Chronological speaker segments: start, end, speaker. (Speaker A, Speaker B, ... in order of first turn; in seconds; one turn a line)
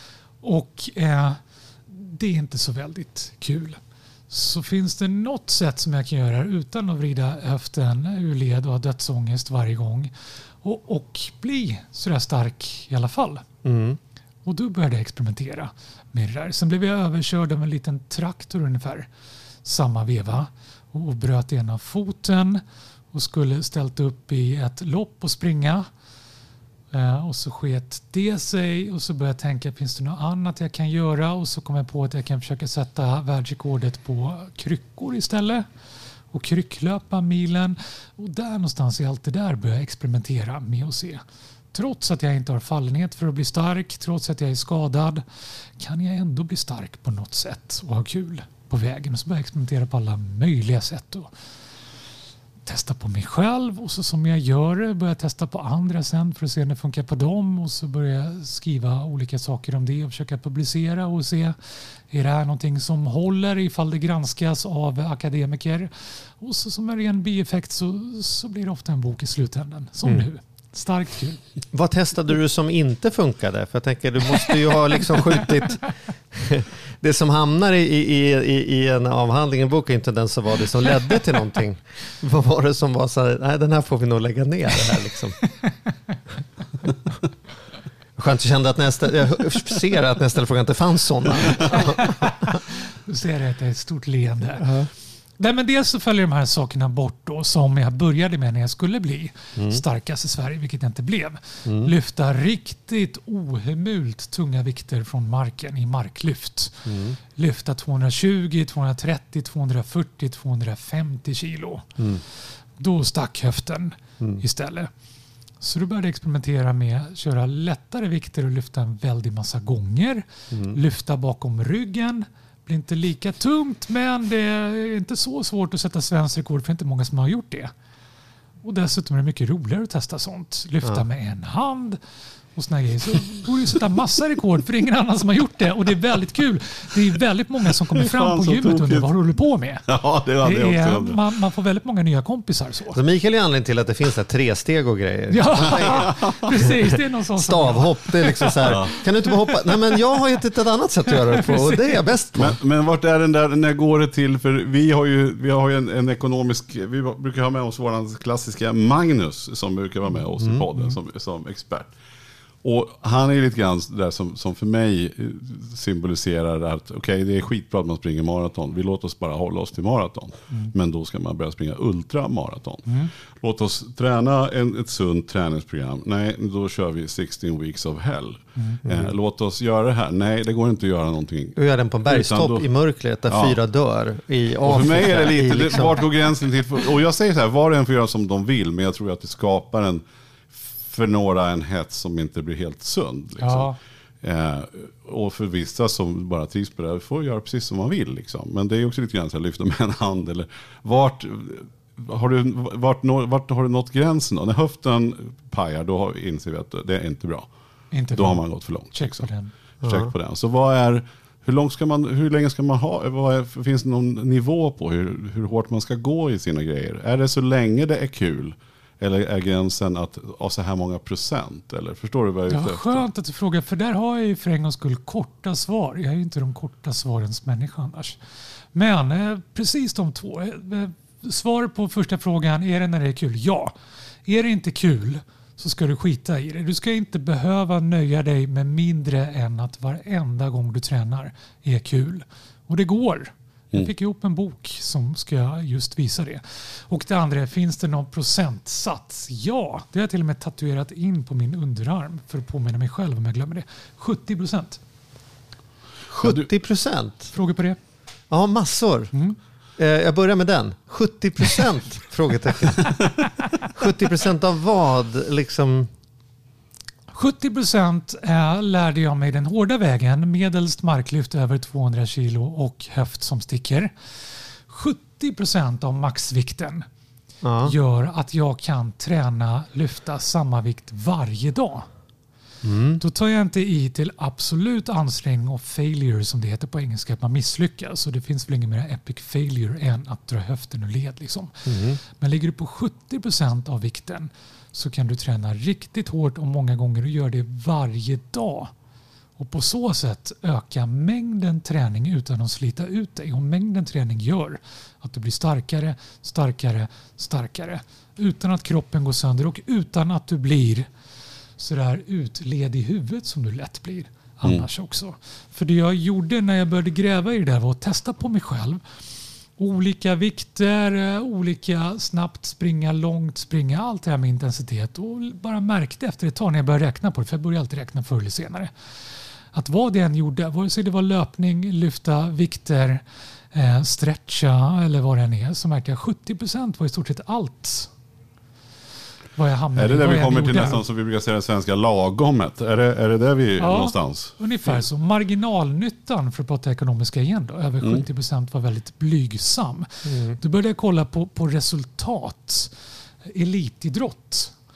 Speaker A: 0.4-10.1
Speaker A: 10.6-13.4
Speaker B: 13.6-14.0
Speaker A: 14.4-19.1
Speaker A: 19.6-25.9
Speaker A: 26.9-35.6
Speaker A: 36.3-41.2
Speaker A: 41.7-45.2
Speaker A: 45.8-51.3
Speaker A: 52.6-61.5
Speaker A: 62.1-71.4
Speaker B: 71.7-85.4
Speaker B: 88.2-92.6
Speaker A: 91.7-92.4
Speaker A: 93.0-94.7
Speaker B: 94.5-94.9
Speaker A: 95.4-112.0
Speaker B: 99.5-99.8
Speaker B: 101.6-101.9
Speaker B: 106.8-107.2
Speaker A: 112.8-114.9
Speaker A: 115.6-127.7
Speaker B: 120.5-120.8
Speaker A: 128.6-132.0
Speaker A: 132.6-139.8
Speaker C: 137.9-139.1
Speaker C: 139.9-141.2
Speaker A: 140.4-143.0
Speaker B: 142.9-152.6
Speaker A: 145.3-148.7
Speaker C: 146.0-146.3
Speaker C: 148.6-148.9
Speaker A: 151.3-152.0
Speaker C: 152.3-161.9
Speaker B: 160.4-160.6
Speaker C: 162.6-182.6
Speaker A: 172.8-173.1
Speaker B: 178.8-179.1
Speaker B: 181.6-186.1
Speaker C: 183.3-183.6
Speaker C: 184.6-207.5
Speaker A: 193.4-193.8
Speaker A: 207.9-209.5
Speaker C: 208.1-209.3
Speaker B: 209.8-210.1
Speaker C: 209.8-223.0
Speaker A: 222.5-228.2
Speaker A: 228.7-233.7
Speaker A: 234.2-254.8
Speaker B: 256.1-257.3
Speaker C: 256.2-256.5
Speaker A: 257.3-257.8
Speaker B: 258.3-259.1
Speaker B: 259.8-263.1
Speaker B: 263.7-265.9
Speaker A: 267.1-273.9
Speaker A: 274.7-276.9
Speaker B: 277.4-277.7
Speaker A: 277.6-281.9
Speaker B: 282.6-283.0
Speaker A: 283.0-298.7
Speaker B: 291.7-292.0
Speaker A: 299.4-310.9
Speaker A: 311.6-318.8
Speaker A: 319.6-328.7
Speaker A: 329.5-333.0
Speaker A: 333.5-337.9
Speaker A: 339.4-340.8
Speaker C: 339.8-344.8
Speaker A: 343.6-352.7
Speaker B: 350.1-350.4
Speaker A: 353.3-354.5